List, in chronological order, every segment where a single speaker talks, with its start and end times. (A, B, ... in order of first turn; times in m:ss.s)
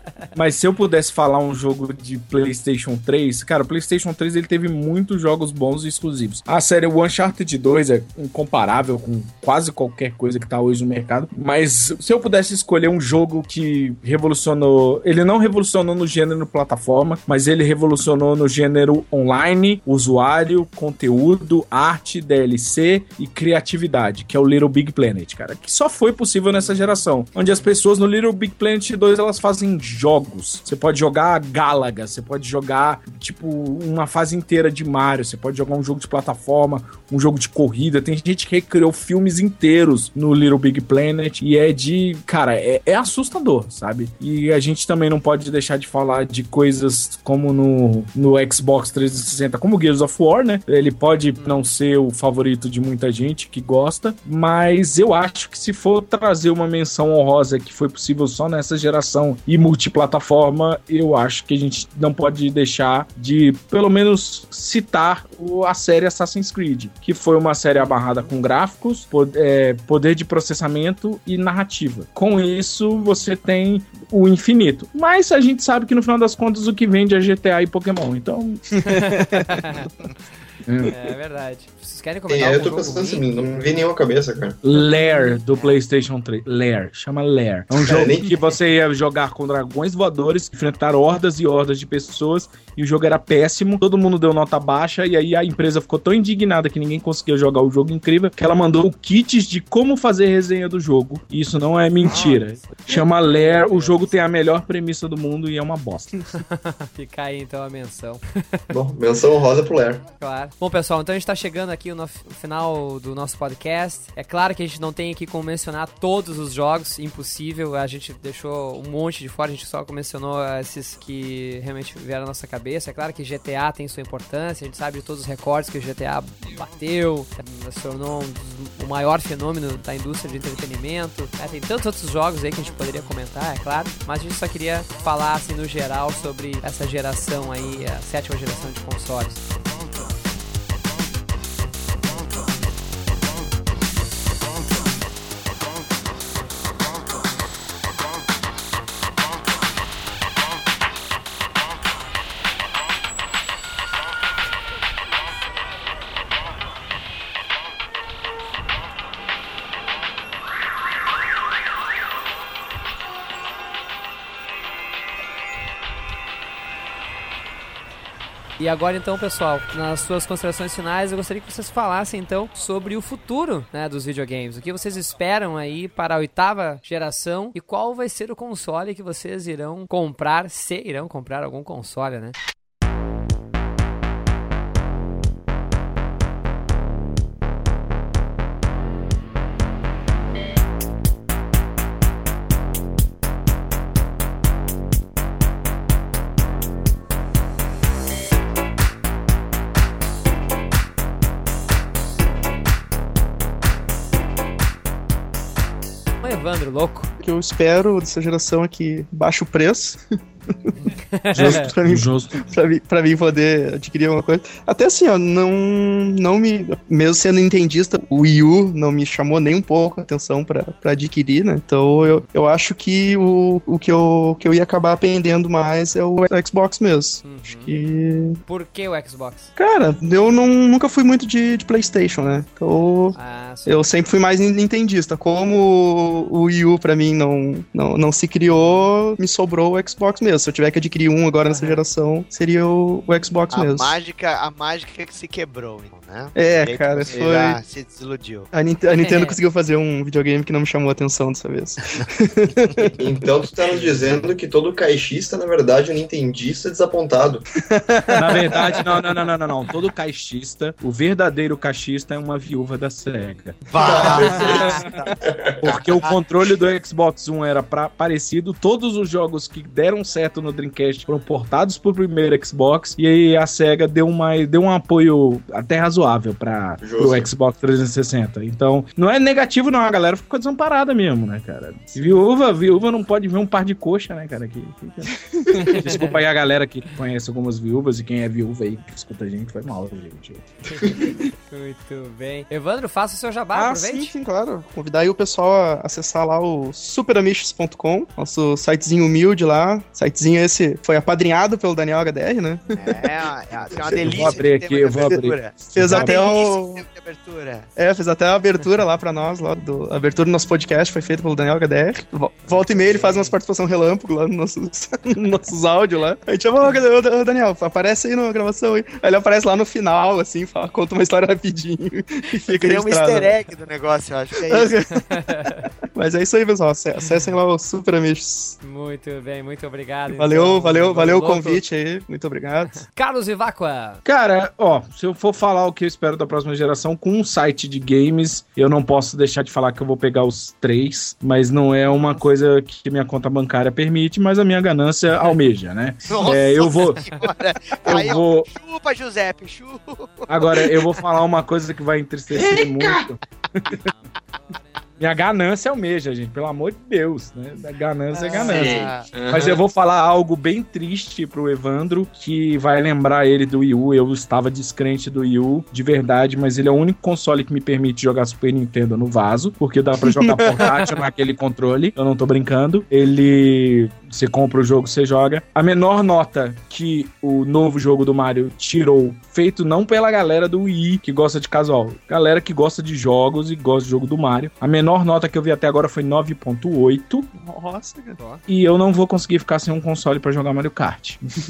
0:00.4-1:18.6 A
0:26.5-0:27.0 B
0:51.4-0:51.7 B
1:07.8-1:08.3 B
1:18.9-1:19.9 B
1:20.6-1:21.0 A
1:20.9-1:23.2 B
1:22.3-1:24.6 C
1:24.6-1:46.1 A
1:27.8-1:28.4 C
1:43.0-1:44.1 B
1:47.0-1:48.2 B
1:48.7-1:50.0 C
1:50.2-2:19.4 B
2:48.6-3:02.4 B
3:26.2-3:27.1 B
3:27.2-3:30.0 D
3:30.8-3:31.7 B
3:31.3-3:32.4 A
3:31.4-3:48.4 D
3:47.2-3:47.7 B
3:48.5-3:49.5 B
3:49.6-4:04.0 D
3:53.1-3:53.9 B
3:58.5-3:58.9 B
4:01.4-4:01.8 B
4:03.5-4:08.5 E
4:06.4-4:07.6 D
4:08.5-4:12.9 D
4:09.0-4:09.4 B
4:13.0-4:17.4 C
4:17.8-4:18.8 D
4:18.1-4:23.6 A
4:23.7-4:25.1 E
4:23.8-4:25.6 C
4:24.1-4:24.7 D
4:25.6-4:50.5 A
4:25.6-4:26.2 E
4:36.8-4:37.3 C
4:45.8-4:46.2 B
4:51.5-4:54.2 B
4:53.5-5:03.2 D
5:02.8-5:07.7 E
5:03.7-5:04.4 D
5:04.0-5:06.1 A
5:05.7-5:06.8 D
5:07.8-5:23.3 D
5:12.9-5:13.4 B
5:22.5-5:24.8 E
5:24.5-5:24.9 D
5:25.1-5:25.6 B
5:25.9-5:28.6 D
5:28.6-5:31.6 B
5:30.1-5:32.8 D
5:32.7-5:34.0 B
5:34.0-5:47.0 A
5:46.1-5:50.8 E
5:47.8-5:48.5 A
5:50.3-5:53.8 A
5:52.3-5:53.0 E
5:55.0-6:27.3 A
5:58.1-5:58.7 B
5:58.2-5:59.1 E
5:58.5-5:59.6 C
6:10.0-6:10.8 D
6:27.3-6:28.2 D
6:28.2-6:28.4 B
6:28.5-6:31.2 A